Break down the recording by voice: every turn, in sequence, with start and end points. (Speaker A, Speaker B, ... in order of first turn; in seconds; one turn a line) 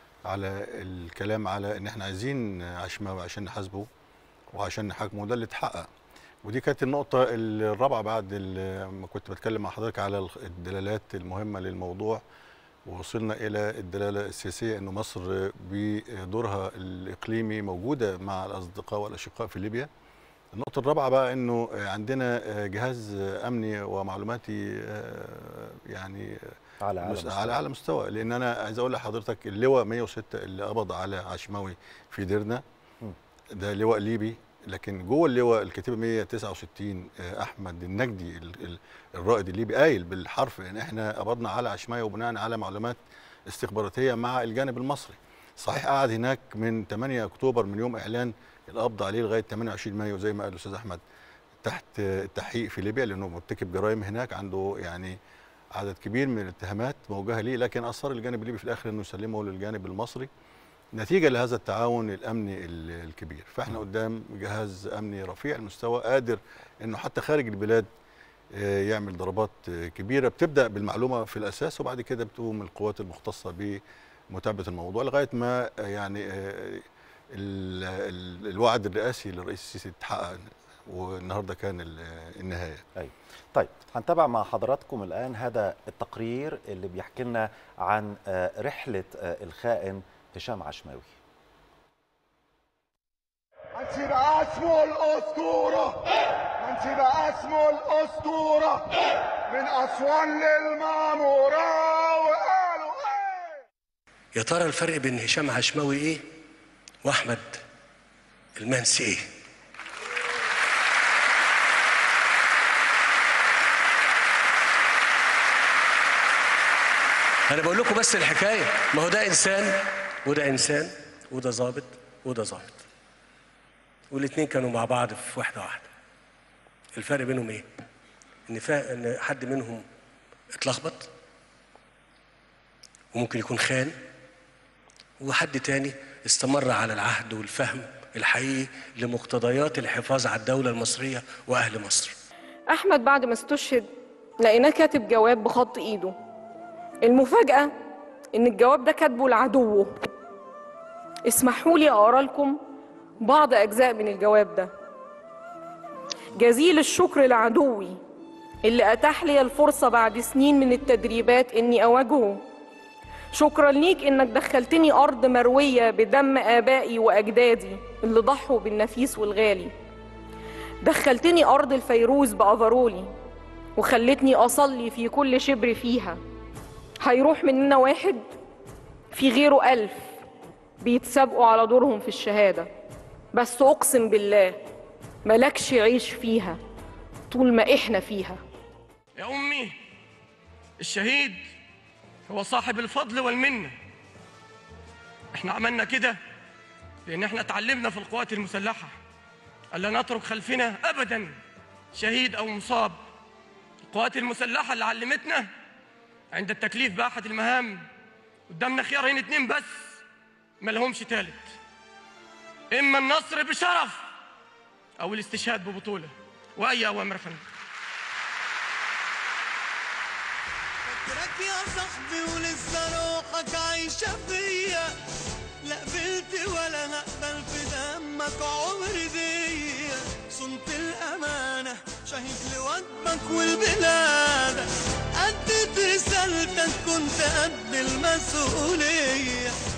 Speaker A: 0.3-3.9
Speaker A: 4.5-5.9
Speaker A: 6.4-12.2
Speaker A: 12.9-19.9
Speaker A: 20.5-26.4
Speaker B: 26.8-27.6
Speaker A: 27.0-32.6
Speaker A: 33.5-43.0
Speaker A: 43.5-51.0
Speaker A: 51.6-55.2
Speaker A: 55.8-60.3
Speaker A: 61.0-67.9
Speaker A: 68.5-73.8
Speaker A: 74.3-76.8
Speaker A: 77.3-82.8
Speaker B: 83.0-91.1
Speaker C: 93.8-96.0
Speaker C: 96.6-98.9
Speaker C: 99.5-103.6
Speaker D: 104.3-106.3
Speaker D: 107.0-107.6
Speaker D: 108.6-109.3
Speaker D: 117.5-122.8
Speaker D: 124.1-125.9
Speaker D: 127.0-127.7
Speaker D: 128.5-129.8
Speaker D: 130.6-131.1
Speaker D: 133.1-133.9
Speaker D: 135.2-142.1
Speaker E: 142.7-143.9
Speaker E: 144.4-146.2
Speaker E: 147.0-147.7
Speaker E: 148.3-150.0
Speaker E: 151.3-152.6
Speaker E: 153.2-154.7
Speaker E: 156.3-158.0
Speaker E: 158.6-162.4
Speaker E: 163.3-169.7
Speaker E: 170.8-173.1
Speaker E: 173.8-176.2
Speaker E: 177.0-178.2
Speaker E: 179.1-180.1
Speaker E: 180.8-182.7
Speaker E: 183.3-184.6
Speaker E: 185.2-186.6
Speaker E: 187.3-188.4
Speaker F: 189.2-189.8
Speaker F: 190.8-191.4
Speaker F: 192.3-193.8
Speaker F: 195.3-196.2
Speaker F: 197.1-199.0
Speaker F: 199.7-201.4
Speaker F: 201.9-203.0
Speaker F: 203.9-205.5
Speaker F: 206.3-207.8
Speaker F: 208.5-210.0
Speaker F: 210.6-211.5
Speaker F: 212.7-214.0
Speaker F: 215.0-217.4
Speaker G: 221.0-224.9
Speaker G: 225.7-234.7
Speaker G: 235.2-239.5